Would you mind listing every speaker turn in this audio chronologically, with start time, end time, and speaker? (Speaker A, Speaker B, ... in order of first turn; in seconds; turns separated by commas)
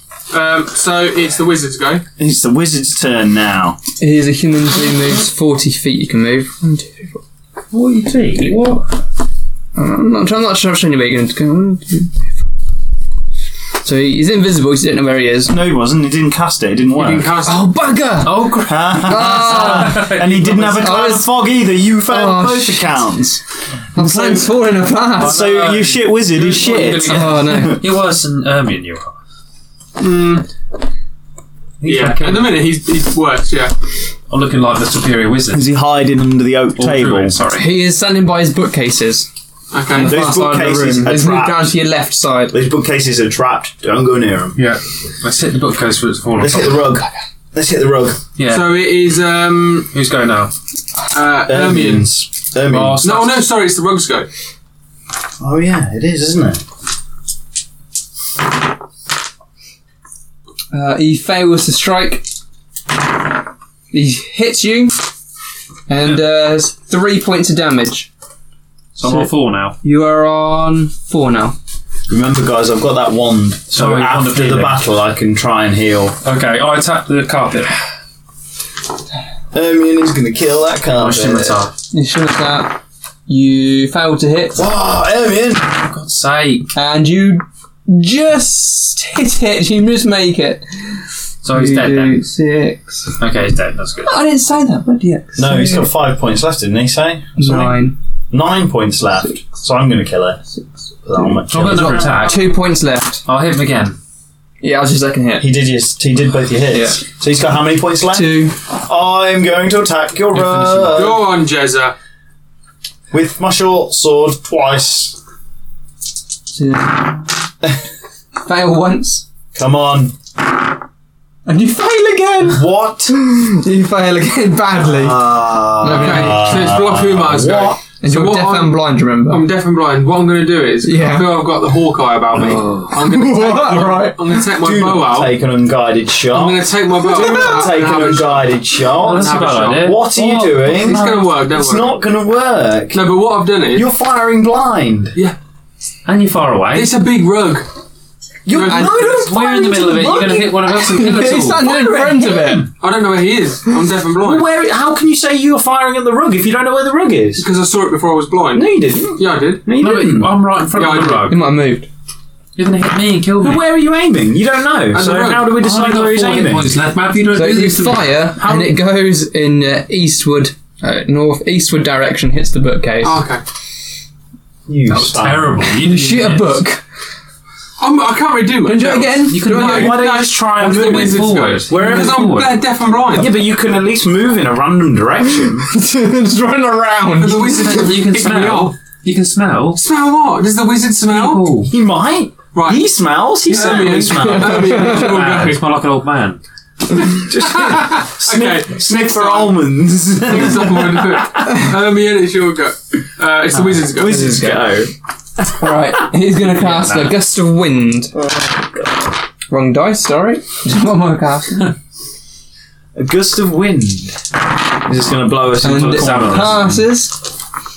Speaker A: 0.3-2.0, Speaker B: 2.2-3.8, Speaker C: 4.0-7.2, Speaker D: 7.7-8.9, Speaker C: 9.8-12.3, Speaker C: 13.8-15.5, Speaker B: 15.5-17.3, Speaker A: 16.9-17.7, Speaker C: 17.4-21.3, Speaker D: 18.2-20.9, Speaker B: 18.6-23.4, Speaker C: 22.1-23.0, Speaker B: 23.9-24.5, Speaker C: 23.9-25.4, Speaker D: 25.2-29.1, Speaker B: 25.2-27.8, Speaker C: 27.1-27.8, Speaker A: 30.0-30.5, Speaker D: 31.8-32.7, Speaker A: 31.8-33.7, Speaker D: 34.3-35.6, Speaker B: 35.5-37.4, Speaker D: 36.8-37.7, Speaker C: 37.5-39.3, Speaker A: 39.7-40.2, Speaker C: 39.9-42.5, Speaker B: 40.0-41.8, Speaker B: 42.5-44.6, Speaker D: 44.6-46.9, Speaker B: 46.4-48.2, Speaker D: 48.4-48.8, Speaker A: 48.5-49.9, Speaker D: 49.9-50.5, Speaker A: 51.1-52.1, Speaker B: 51.5-53.0, Speaker D: 52.6-53.5, Speaker A: 53.0-54.3, Speaker B: 55.4-56.6, Speaker C: 60.7-62.2, Speaker C: 63.9-65.0, Speaker C: 65.9-68.1, Speaker D: 68.9-69.8, Speaker C: 69.0-69.3, Speaker C: 69.8-71.5, Speaker B: 72.1-76.2, Speaker D: 73.7-74.8, Speaker D: 76.2-77.8, Speaker B: 79.5-81.6, Speaker D: 80.9-81.7, Speaker C: 81.9-84.7, Speaker B: 84.5-85.8, Speaker D: 85.8-86.7, Speaker C: 86.7-93.1, Speaker D: 91.4-92.2, Speaker D: 93.2-94.1, Speaker C: 94.0-95.9, Speaker B: 95.3-97.8, Speaker C: 97.4-98.0, Speaker B: 98.3-100.4, Speaker B: 101.0-102.2, Speaker C: 101.2-103.2, Speaker D: 101.5-102.5, Speaker D: 103.2-104.0, Speaker C: 104.6-105.5, Speaker B: 105.4-111.2, Speaker C: 106.7-107.0, Speaker C: 108.1-108.6, Speaker D: 110.3-111.0, Speaker A: 110.9-112.0, Speaker B: 113.1-115.2, Speaker C: 116.5-117.3, Speaker C: 118.4-119.2, Speaker B: 119.5-120.1, Speaker C: 121.5-126.7, Speaker B: 122.5-123.1, Speaker B: 124.8-127.8, Speaker A: 125.9-135.3, Speaker C: 128.0-129.4, Speaker C: 130.8-131.4, Speaker B: 132.5-143.0, Speaker A: 136.3-141.9, Speaker C: 137.1-137.6, Speaker D: 138.9-140.5, Speaker A: 142.9-143.9, Speaker B: 143.7-145.2, Speaker D: 146.0-146.9, Speaker A: 146.7-147.7, Speaker B: 148.4-150.6, Speaker A: 148.5-149.3, Speaker C: 148.7-149.1, Speaker D: 149.2-151.7, Speaker C: 150.6-152.7, Speaker B: 151.6-152.7, Speaker A: 152.8-154.5, Speaker B: 154.2-157.4, Speaker A: 157.4-159.6, Speaker B: 158.5-160.3, Speaker D: 159.8-161.4, Speaker A: 160.7-161.3, Speaker C: 161.3-161.9, Speaker D: 162.6-163.6, Speaker B: 163.4-166.7, Speaker A: 164.9-165.5, Speaker D: 165.5-168.7, Speaker C: 167.3-173.2, Speaker A: 173.0-173.4, Speaker B: 174.7-175.7, Speaker D: 174.9-176.6, Speaker C: 175.8-176.8, Speaker A: 177.8-183.4, Speaker C: 178.6-179.9, Speaker D: 179.2-182.6, Speaker B: 179.6-182.3, Speaker B: 183.1-185.7, Speaker C: 185.6-187.9, Speaker A: 187.2-188.7, Speaker D: 187.4-189.8, Speaker A: 189.8-191.5, Speaker D: 191.1-191.7, Speaker B: 191.7-194.8, Speaker A: 192.5-192.8, Speaker A: 193.5-195.6, Speaker C: 193.5-195.1, Speaker D: 194.7-196.4, Speaker B: 197.0-201.4, Speaker A: 197.4-204.3, Speaker B: 203.6-204.9, Speaker C: 204.0-204.7, Speaker C: 205.6-208.1, Speaker D: 206.6-207.2, Speaker B: 208.1-209.1, Speaker C: 209.5-211.7, Speaker B: 212.9-214.2, Speaker B: 214.8-216.8, Speaker D: 215.6-216.8, Speaker C: 215.6-217.2